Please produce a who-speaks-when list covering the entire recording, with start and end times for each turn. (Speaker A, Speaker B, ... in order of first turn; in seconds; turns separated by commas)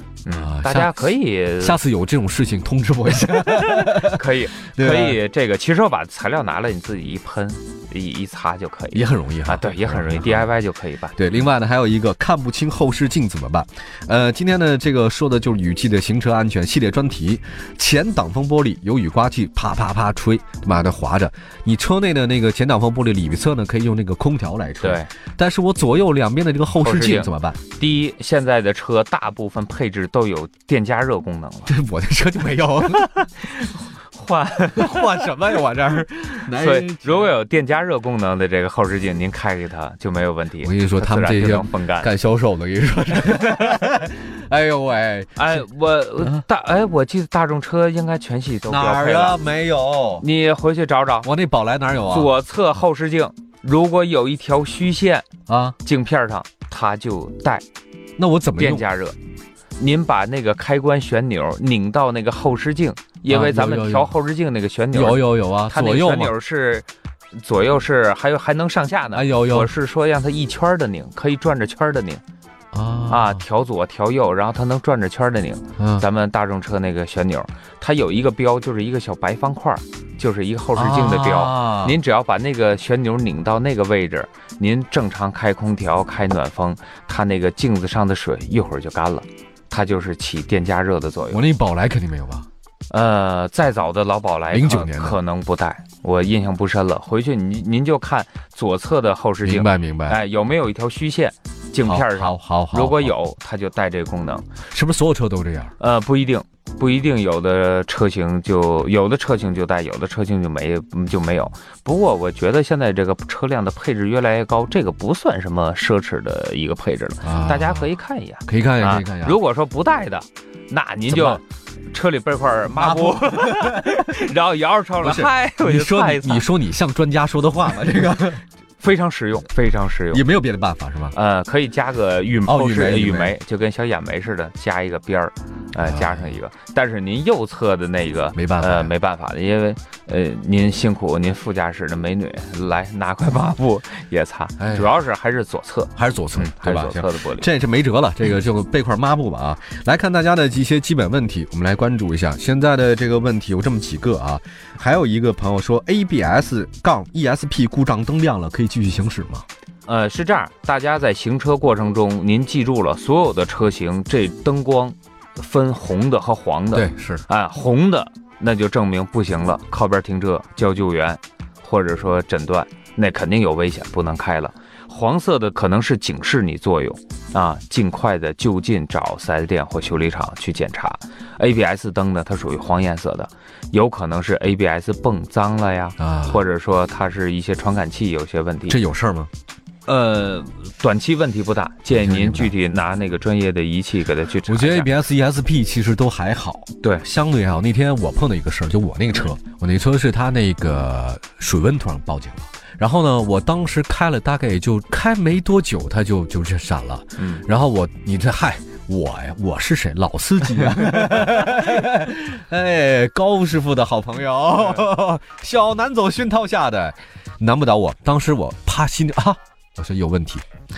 Speaker A: 0.2-1.8, Speaker B: 0.3-5.2, Speaker A: 3.6-11.2, Speaker B: 8.9-10.5, Speaker B: 11.2-27.6, Speaker A: 24.8-25.1, Speaker A: 26.8-31.7, Speaker B: 31.6-33.4, Speaker A: 33.3-35.2, Speaker B: 34.7-37.3, Speaker A: 36.5-42.1, Speaker B: 40.6-45.6, Speaker A: 45.4-49.4, Speaker B: 48.7-50.2, Speaker A: 50.2-51.3, Speaker B: 51.2-52.3, Speaker A: 52.1-55.3, Speaker B: 55.5-55.8, Speaker A: 55.8-57.6, Speaker B: 58.2-58.8, Speaker A: 58.6-59.2, Speaker A: 59.8-66.8, Speaker B: 63.3-64.1, Speaker B: 64.9-66.3, Speaker A: 67.4-72.2, Speaker B: 69.1-69.7, Speaker B: 72.7-73.4, Speaker A: 73.1-91.4, Speaker B: 75.8-76.0, Speaker B: 80.7-82.0, Speaker B: 91.3-92.5, Speaker A: 92.9-104.5, Speaker B: 94.5-95.2, Speaker B: 99.4-100.2, Speaker B: 101.8-103.1, Speaker B: 104.7-105.7, Speaker A: 105.8-126.5, Speaker B: 117.2-117.9, Speaker B: 118.5-119.4, Speaker B: 121.1-121.4, Speaker B: 122.7-124.0, Speaker B: 125.0-128.4, Speaker A: 128.8-130.2, Speaker B: 130.1-131.2, Speaker A: 131.1-147.5, Speaker B: 132.4-133.3, Speaker B: 135.7-136.4, Speaker B: 138.3-138.9, Speaker B: 144.6-144.9, Speaker B: 145.9-159.4, Speaker A: 159.8-188.8, Speaker B: 166.7-167.2, Speaker B: 186.0-186.4, Speaker B: 188.7-189.3, Speaker A: 189.8-194.9, Speaker B: 191.9-192.5, Speaker B: 194.4-220.4, Speaker A: 207.2-207.4